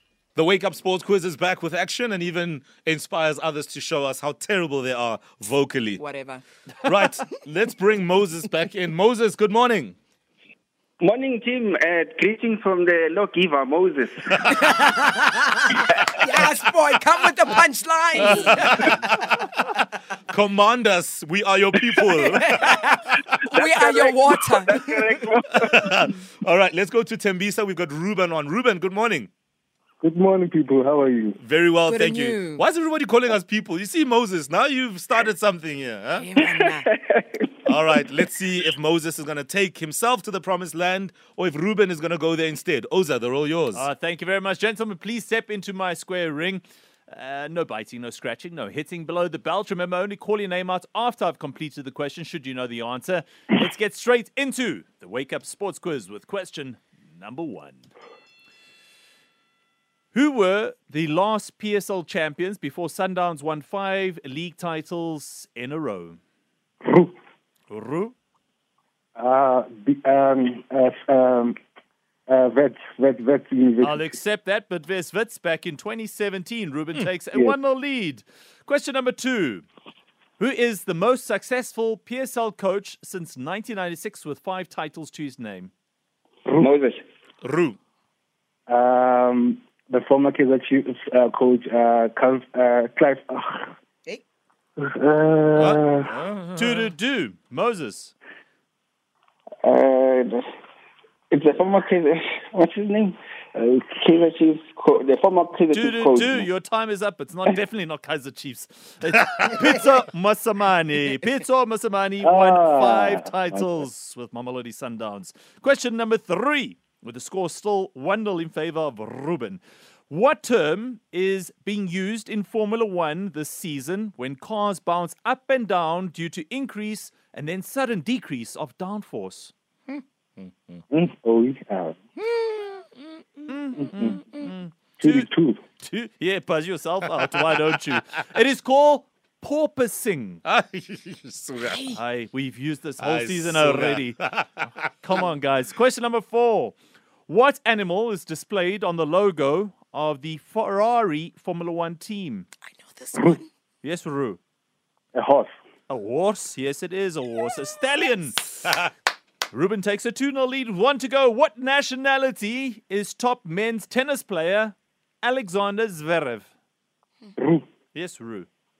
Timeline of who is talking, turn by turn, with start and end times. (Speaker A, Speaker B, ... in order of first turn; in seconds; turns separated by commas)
Speaker A: 0.3-6.0, Speaker B: 6.0-6.9, Speaker A: 6.8-9.9, Speaker C: 11.0-14.3, Speaker B: 14.4-19.1, Speaker A: 18.2-19.2, Speaker A: 20.3-23.4, Speaker B: 22.2-24.8, Speaker C: 23.5-25.8, Speaker A: 25.5-29.3, Speaker D: 30.0-31.4, Speaker A: 31.4-36.3, Speaker B: 31.9-32.6, Speaker B: 36.1-36.9, Speaker C: 36.4-37.5, Speaker A: 37.6-43.8, Speaker E: 43.7-57.9, Speaker E: 60.1-66.2, Speaker E: 67.7-68.2, Speaker D: 69.2-71.6, Speaker D: 72.3-74.2, Speaker E: 73.8-79.7, Speaker E: 80.4-85.7, Speaker C: 86.6-87.0, Speaker A: 87.4-87.8, Speaker D: 88.7-93.7, Speaker D: 94.8-96.1, Speaker A: 95.6-96.9, Speaker E: 96.6-98.1, Speaker C: 99.6-100.5, Speaker C: 101.3-103.2, Speaker C: 103.9-106.5, Speaker E: 105.7-129.5, Speaker D: 112.2-113.8, Speaker A: 129.9-130.8, Speaker D: 130.9-132.0, Speaker E: 133.5-140.4, Speaker D: 133.8-134.2, Speaker D: 135.0-135.6, Speaker A: 140.4-141.9, Speaker B: 141.6-142.0, Speaker E: 141.9-144.2, Speaker A: 143.0-144.7, Speaker E: 145.0-146.8, Speaker E: 147.3-152.5, Speaker B: 152.7-153.5, Speaker E: 153.8-154.4, Speaker D: 155.1-155.5, Speaker E: 155.9-158.8, Speaker E: 159.5-166.5, Speaker D: 167.4-167.6, Speaker E: 167.9-168.5